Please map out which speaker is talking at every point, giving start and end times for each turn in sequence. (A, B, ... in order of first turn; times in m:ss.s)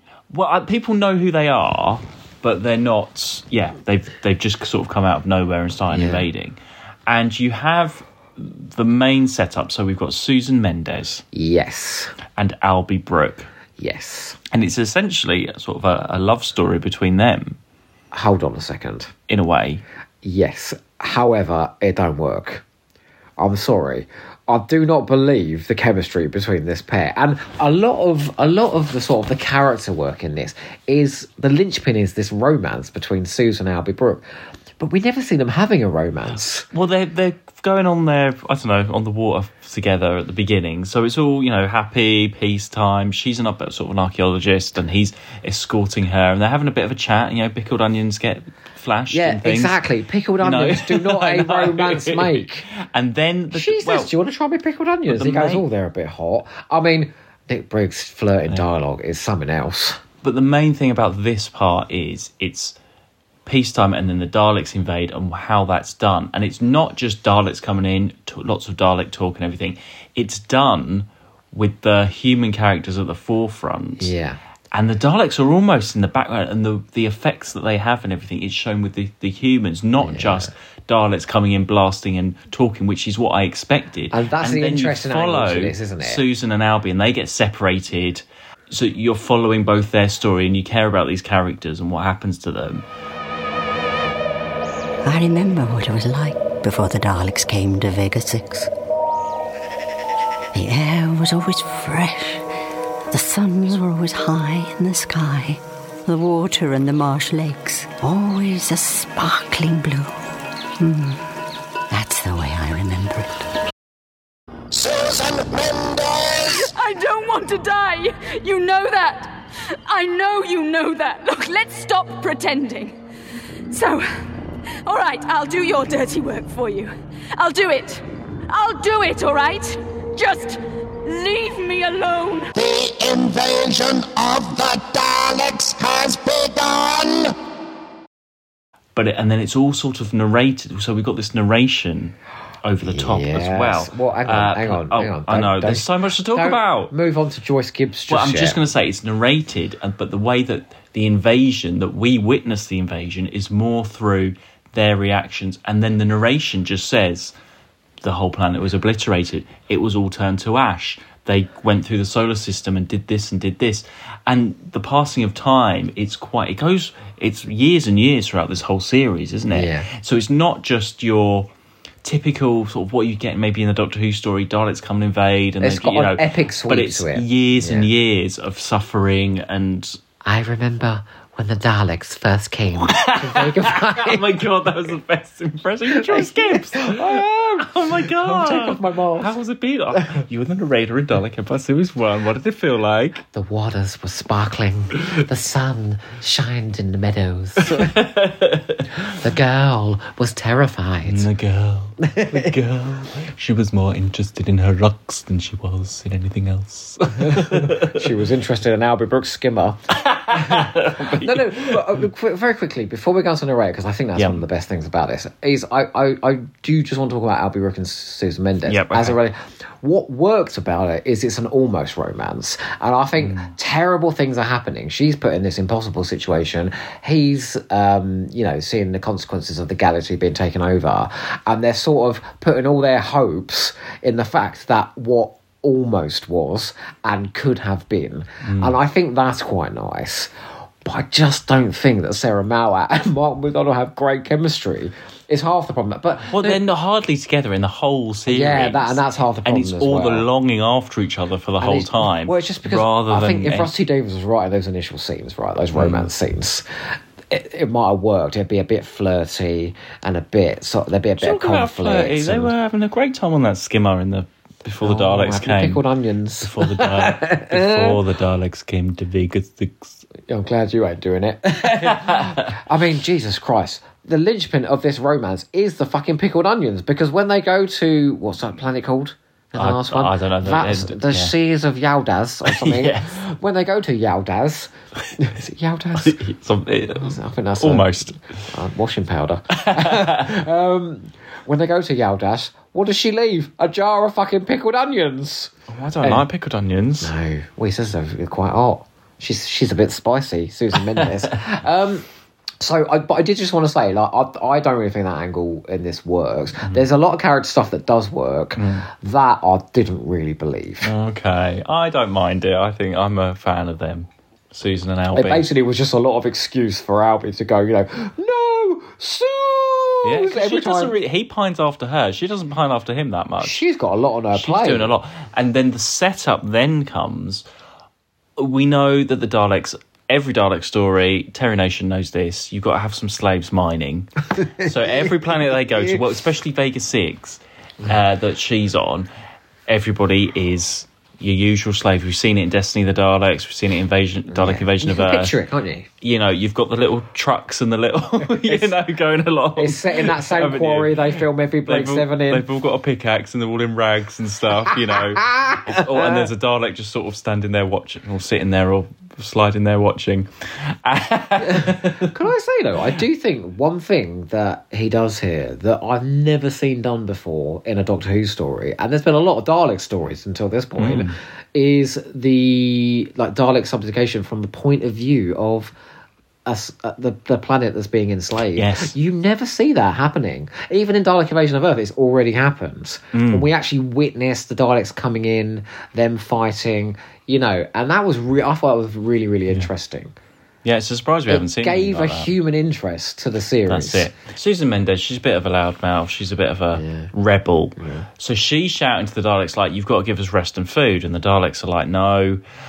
0:00.3-0:11.2 A
0:05.9-0:06.2 B
0:11.3-0:12.1 B
0:12.4-0:13.5 A
0:13.8-0:14.4 B
0:14.5-0:17.6 A
0:18.1-0:19.1 B
0:19.3-0:19.8 A
0:20.2-0:22.6 B
0:23.4-0:34.2 B
0:34.8-0:36.7 B
0:36.7-0:49.8 A
0:49.1-0:52.6 B
0:50.4-0:54.1 A
0:53.5-1:00.0 B
0:55.1-0:55.6 A
1:00.2-1:02.8 A
1:03.4-1:14.1 A
1:14.0-1:14.4 B
1:14.7-1:32.8 A
1:20.0-1:20.5 B
1:24.1-1:26.2 B
1:35.0-1:38.7 C
1:40.5-1:42.4 C
1:43.1-1:50.2 C
1:50.8-1:51.3 C
1:51.9-1:53.4 C
1:54.7-1:56.7 D
1:56.5-2:03.0 E
2:03.7-2:04.1 E
2:04.8-2:12.5 E
2:12.5-2:17.3 D
2:18.9-2:26.9 A
2:22.8-2:28.6 B
2:28.1-2:37.3 A
2:38.0-2:51.5 A
2:49.5-2:49.9 B
2:52.0-3:00.0 A
2:55.6-2:57.9 B
3:00.2-3:04.7 B
3:02.8-3:13.2 A
3:05.9-3:09.3 B
3:10.0-3:10.2 B
3:13.2-3:18.0 B
3:17.6-3:19.0 A
3:19.0-3:21.3 B
3:21.0-3:28.0 A
3:22.0-3:22.5 B
3:27.2-4:00.3 B
3:30.0-3:31.8 A
3:34.2-3:34.4 A
3:38.6-3:39.2 A
3:43.2-3:43.5 A
3:58.4-3:58.8 A
4:00.8-4:06.6 B
4:06.3-4:13.7 A
4:08.3-4:10.3 B
4:11.6-4:22.5 B
4:15.7-4:16.1 A
4:21.2-4:25.8 A
4:24.8-4:28.0 B
4:26.4-4:30.0 A
4:30.3-4:46.2 B
4:31.8-4:32.6 A
4:39.6-4:41.3 A
4:42.4-4:43.2 A
4:46.0-4:48.2 A
4:46.9-4:56.2 B
4:49.5-4:50.3 A
4:55.7-4:57.1 A
4:57.0-5:02.0 B
5:02.6-5:10.9 B
5:08.6-5:08.8 A
5:10.8-5:15.5 A
5:15.1-5:20.9 B
5:20.0-5:23.6 A
5:23.4-5:24.9 B
5:24.3-5:27.4 A
5:28.4-5:39.1 A
5:34.4-5:36.0 B
5:39.7-5:45.4 A
5:44.3-5:45.9 B
5:46.0-6:02.1 A
5:48.4-5:48.7 B
5:49.6-5:52.5 B
5:54.7-5:56.3 B
6:01.4-6:15.7 B
6:10.8-6:11.1 A
6:16.4-6:30.1 B
6:18.5-6:18.9 A
6:23.1-6:23.5 A
6:30.6-6:32.3 A
6:31.3-6:34.1 B
6:33.7-6:42.4 A
6:36.7-6:37.1 B
6:37.8-6:38.1 B